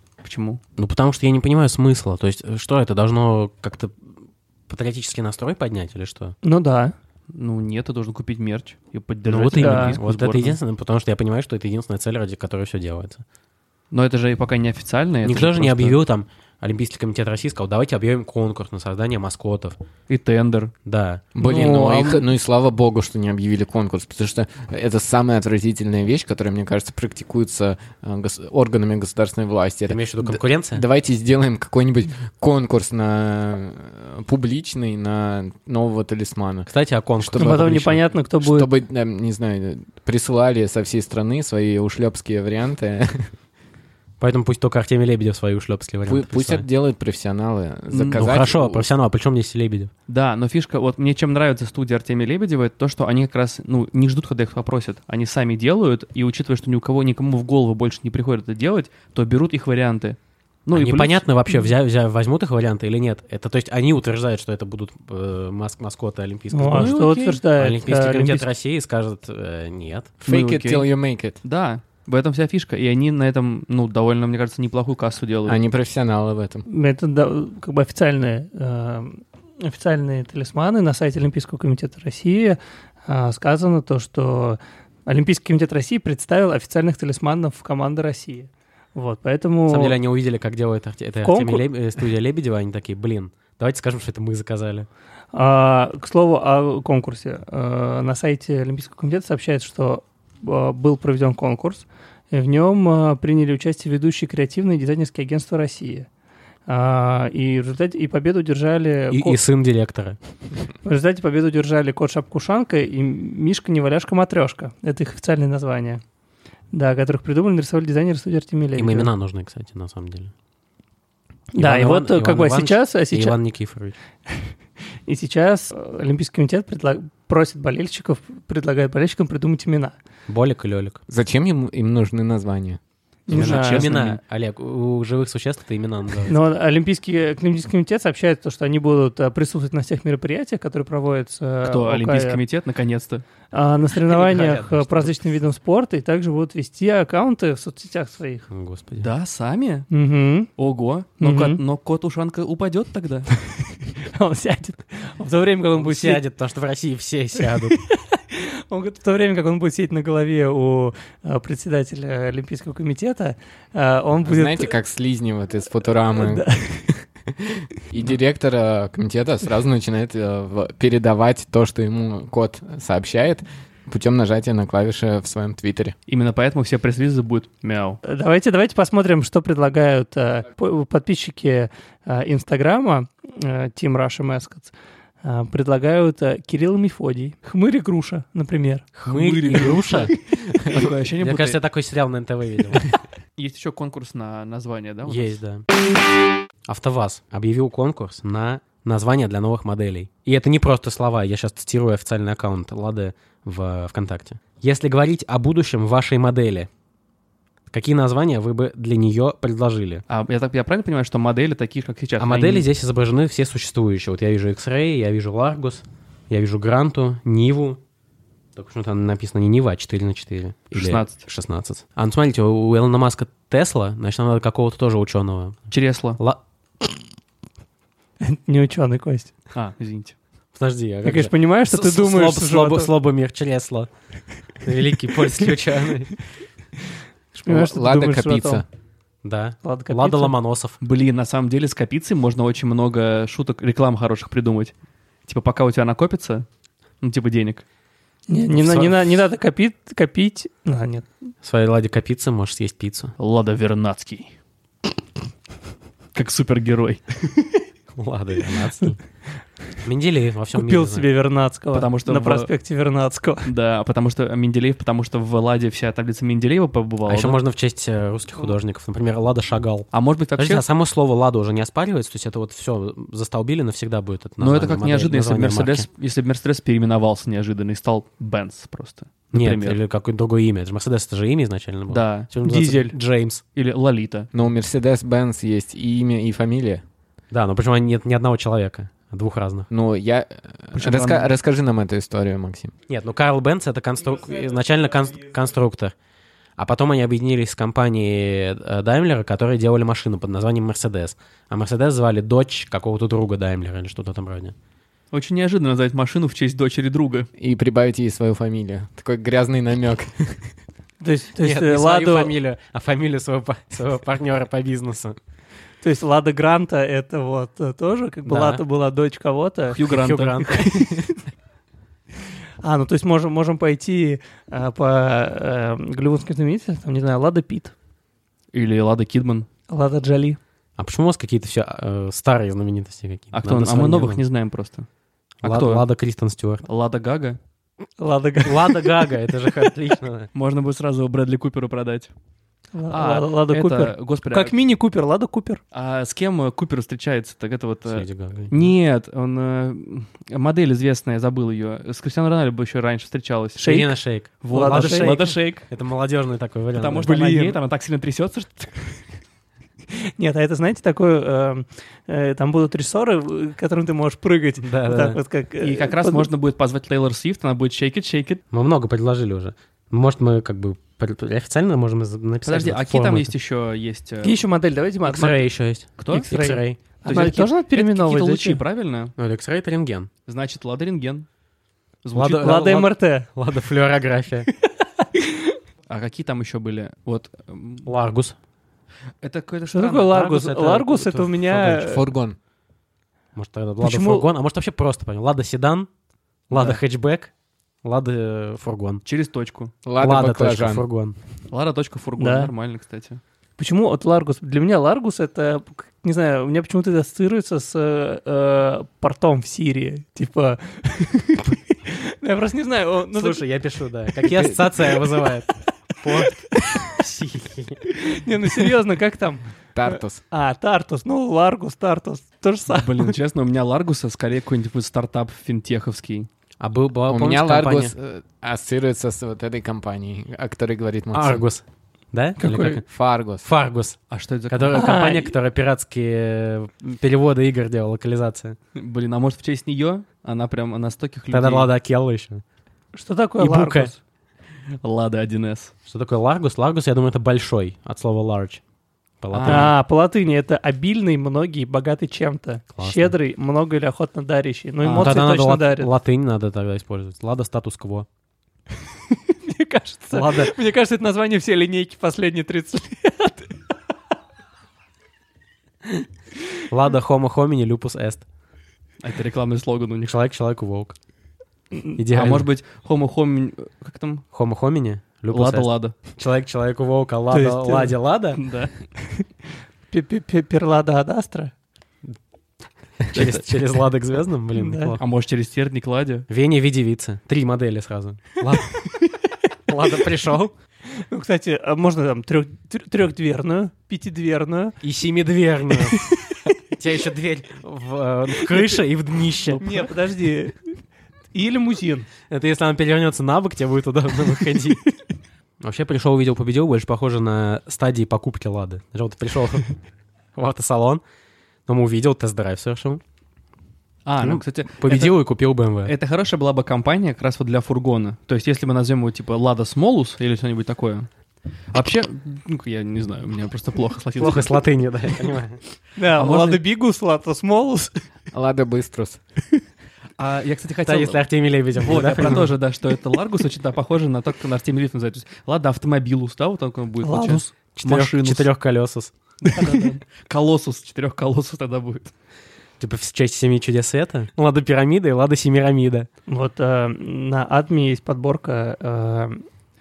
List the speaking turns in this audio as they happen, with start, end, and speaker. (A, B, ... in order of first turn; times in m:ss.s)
0:00.2-0:00.6 A
0:00.8-0:04.1 B
0:04.7-0:06.4 B
0:06.4-0:06.9 C
0:07.3-0:10.6 A
0:09.2-0:13.2 B
0:09.6-0:10.0 C
0:13.9-0:16.0 A
0:15.2-0:19.8 B
0:20.1-0:20.7 A
0:20.8-0:22.2 B
0:21.4-0:36.7 D
0:21.6-0:22.0 A
0:29.9-0:30.8 B
0:36.7-0:38.0 B
0:37.3-0:37.6 D
0:37.3-0:38.7 C
0:38.4-0:43.3 D
0:44.2-0:46.6 B
0:46.1-0:48.9 D
0:47.9-0:48.2 A
0:48.1-0:49.9 B
0:50.1-1:01.3 A
1:00.7-1:10.2 B
1:06.5-1:08.5 C
1:10.2-1:11.4 D
1:10.3-1:10.9 A
1:11.4-1:15.6 A
1:15.4-1:16.6 D
1:16.7-1:30.0 C
1:29.7-1:34.9 B
1:31.2-1:31.6 C
1:35.3-1:46.1 C
1:46.7-1:49.4 C
1:49.1-1:50.2 B
1:50.8-1:56.0 C
1:56.7-1:59.1 C
1:58.8-2:00.3 B
2:01.5-2:03.4 C
2:01.6-2:03.9 B
2:05.0-2:10.0 C
2:10.3-2:11.0 B
2:11.1-2:12.8 D
2:13.3-2:13.9 C
2:13.3-2:14.2 A
2:13.3-2:16.4 B
2:16.3-2:22.4 C
2:21.6-2:23.2 A
2:23.5-2:28.4 C
2:24.0-2:25.3 B
2:28.5-2:29.1 B
2:29.0-2:29.9 A
2:29.9-2:30.5 C
2:30.6-2:33.3 A
2:31.2-2:31.6 C
2:34.0-2:36.2 C
2:35.8-2:37.8 B
2:37.4-2:44.7 C
2:44.2-2:46.5 D
2:46.2-2:47.0 C
2:47.9-2:55.9 D
2:56.1-2:58.0 A
2:58.0-3:04.7 C
3:05.2-3:08.9 C
3:08.9-3:12.9 B
3:09.1-3:11.6 A
3:13.4-3:15.4 A
3:15.0-3:15.6 B
3:16.6-3:26.7 B
3:27.7-3:30.0 B
3:30.1-3:32.7 A
3:32.2-3:37.8 B
3:38.5-3:46.4 B
3:40.7-3:41.2 A
3:45.7-3:46.2 A
3:48.2-3:49.3 C
3:49.5-3:50.2 A
3:50.5-3:53.9 B
3:51.0-3:52.9 C
3:54.6-3:56.2 B
3:57.3-3:58.6 C
3:57.5-3:58.6 D
3:59.2-4:00.8 B
3:59.6-4:00.3 C
4:00.8-4:04.7 A
4:05.3-4:06.4 A
4:07.0-4:07.6 A
4:08.3-4:11.0 C
4:08.6-4:09.0 B
4:11.4-4:13.1 B
4:13.2-4:14.3 A
4:16.1-4:17.2 A
4:17.9-4:19.0 B
4:19.8-4:21.0 B
4:20.5-4:23.5 C
4:21.7-4:22.5 A
4:23.4-4:27.4 A
4:27.1-4:35.9 B
4:29.9-4:30.6 A
4:34.4-4:39.8 A
4:39.3-4:43.4 B
4:41.9-4:42.9 A
4:42.5-4:42.8 C
4:43.5-4:44.3 A
4:44.3-4:46.8 D
4:47.3-4:49.7 B
4:49.7-4:52.7 D
4:50.7-4:51.3 A
4:52.9-4:55.9 B
4:56.6-5:04.5 B
5:05.1-5:07.3 A
5:07.4-5:10.4 D
5:11.0-5:12.3 C
5:11.4-5:15.2 B
5:15.8-5:21.0 C
5:18.2-5:18.6 B
5:19.7-5:20.9 A
5:19.8-5:20.6 B
5:22.6-5:27.7 C
5:28.5-5:29.5 A
5:29.7-5:30.4 C
5:30.8-5:34.2 B
5:33.3-5:34.9 A
5:35.4-5:35.8 A
5:35.4-5:36.6 B
5:36.6-5:37.4 A
5:38.0-5:39.7 C
5:38.4-5:40.3 B
5:40.3-5:42.1 A
5:42.7-5:45.6 C
5:42.9-5:44.5 A
5:45.7-5:53.8 A
5:47.9-5:48.7 B
5:53.6-5:53.9 C
5:53.6-5:57.5 B
5:54.4-5:55.7 A
5:54.5-5:55.3 C
5:56.7-5:59.0 A
5:57.0-5:57.6 C
6:00.2-6:06.3 C
6:04.6-6:05.2 B
6:05.6-6:08.4 A
6:08.5-6:13.3 B
6:12.4-6:14.4 A
6:14.2-6:15.4 C
6:15.0-6:16.8 B
6:16.0-6:16.3 A
6:16.1-6:18.6 C
6:17.0-6:19.1 A
6:19.2-6:20.1 B
6:20.3-6:21.2 A
6:22.0-6:22.7 A
6:22.1-6:24.5 B
6:22.3-6:23.3 C
6:25.0-6:25.5 C
6:25.9-6:27.9 A
6:27.8-6:28.4 B
6:29.2-6:30.2 A
6:29.7-6:32.0 C
6:30.1-6:31.7 B
6:31.7-6:32.4 D
6:33.3-6:35.9 B
6:33.8-6:34.3 C
6:36.5-6:37.3 B
6:37.8-6:39.0 B
6:39.0-6:39.7 A
6:39.8-6:40.8 D
6:40.0-6:41.2 B
6:41.5-6:43.2 A
6:42.2-6:42.5 C
6:43.6-6:53.4 C
6:53.1-6:57.8 B
6:57.9-7:03.1 C
6:59.7-7:00.2 D
7:02.7-7:06.3 A
7:06.6-7:07.9 B
7:07.1-7:11.4 D
7:11.1-7:12.8 B
7:12.4-7:12.8 C
7:12.8-7:13.5 D
7:13.4-7:14.0 B
7:14.1-7:14.8 A
7:14.5-7:18.6 B
7:14.7-7:15.3 C
7:18.7-7:21.7 A
7:21.3-7:22.4 B
7:22.9-7:24.0 C
7:23.4-7:23.9 B
7:24.8-7:25.7 A
7:25.8-7:28.6 B
7:29.2-7:29.7 B
7:29.3-7:29.7 A
7:29.4-7:35.9 C
7:32.7-7:33.1 B
7:34.8-7:35.2 A
7:35.0-7:38.1 B
7:39.1-7:43.6 C
7:40.1-7:40.5 B
7:46.7-7:48.2 B
7:49.0-7:50.2 A
7:50.0-7:51.0 B
7:52.0-7:52.5 B
7:52.1-7:54.2 A
7:54.3-7:58.4 B
7:55.3-7:56.0 A
7:57.3-7:57.9 C
7:58.4-7:58.7 A
7:59.9-8:01.5 C
8:03.0-8:05.0 B
8:03.1-8:03.6 A
8:04.6-8:05.0 C
8:05.0-8:06.3 A
8:06.3-8:08.8 B
8:09.7-8:10.5 B
8:11.1-8:14.8 C
8:14.8-8:19.9 B
8:16.0-8:16.3 C
8:19.5-8:20.8 C
8:21.3-8:22.1 C
8:22.3-8:24.8 B
8:25.6-8:29.7 B
8:30.3-8:31.0 B
8:31.6-8:33.0 B
8:34.0-8:35.2 A
8:34.2-8:35.9 B
8:35.8-8:41.1 A
8:41.7-8:44.6 A
8:44.2-8:45.6 B
8:46.0-8:48.0 C
8:46.2-8:46.6 A
8:48.3-8:49.2 D
8:50.2-8:51.2 A
8:50.8-8:52.6 B
8:51.8-8:58.5 A
8:57.0-8:57.5 C
8:57.7-8:59.1 B
8:59.4-9:02.1 A
8:59.5-8:59.9 C
9:02.8-9:06.1 B
9:06.3-9:09.4 C